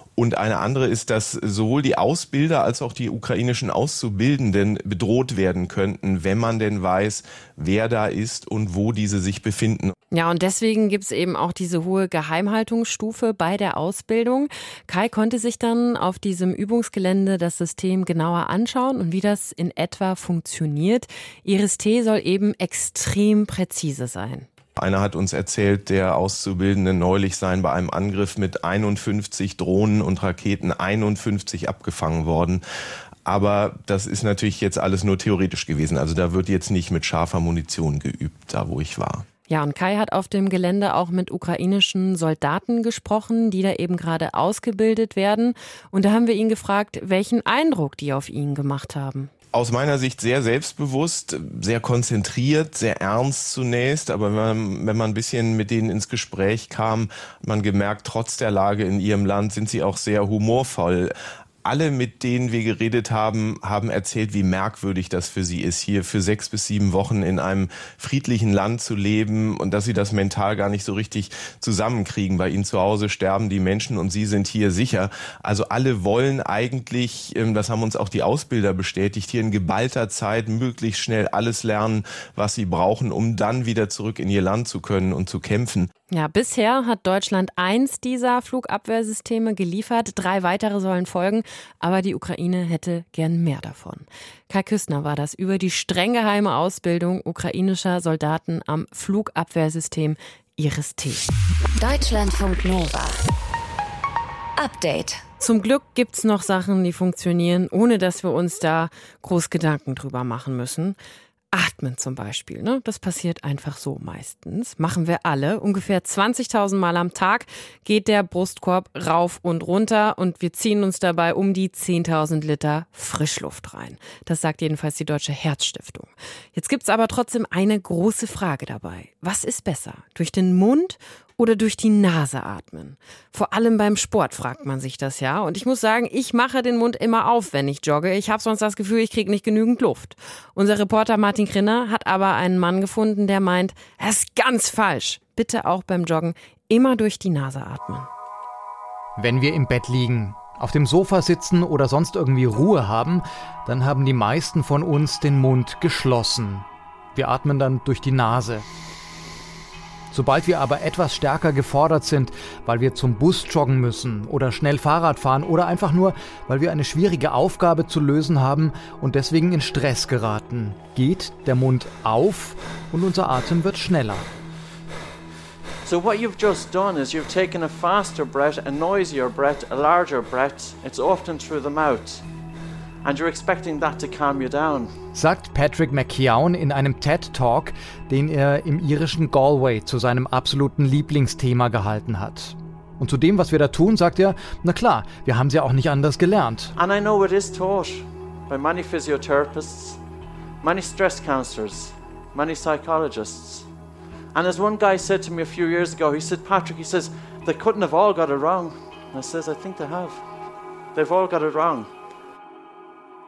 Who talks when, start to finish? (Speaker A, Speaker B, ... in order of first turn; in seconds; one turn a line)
Speaker A: 0.1-9.9
Speaker B: 10.1-24.5
Speaker A: 24.8-32.6
Speaker A: 33.2-39.2
Speaker B: 39.5-49.3
Speaker A: 49.5-61.1
Speaker A: 61.6-85.9
Speaker B: 86.1-101.3
Speaker C: 101.8-103.2
Speaker C: 104.6-105.2
Speaker B: 105.4-111.0
Speaker B: 111.5-148.1
Speaker D: 149.2-158.7
Speaker D: 160.1-174.2
Speaker E: 175.8-182.2
Speaker E: 183.0-184.9
Speaker D: 185.1-196.7
Speaker E: 196.8-200.0
Speaker E: 200.6-203.7
Speaker E: 204.3-210.2
Speaker E: 210.9-211.9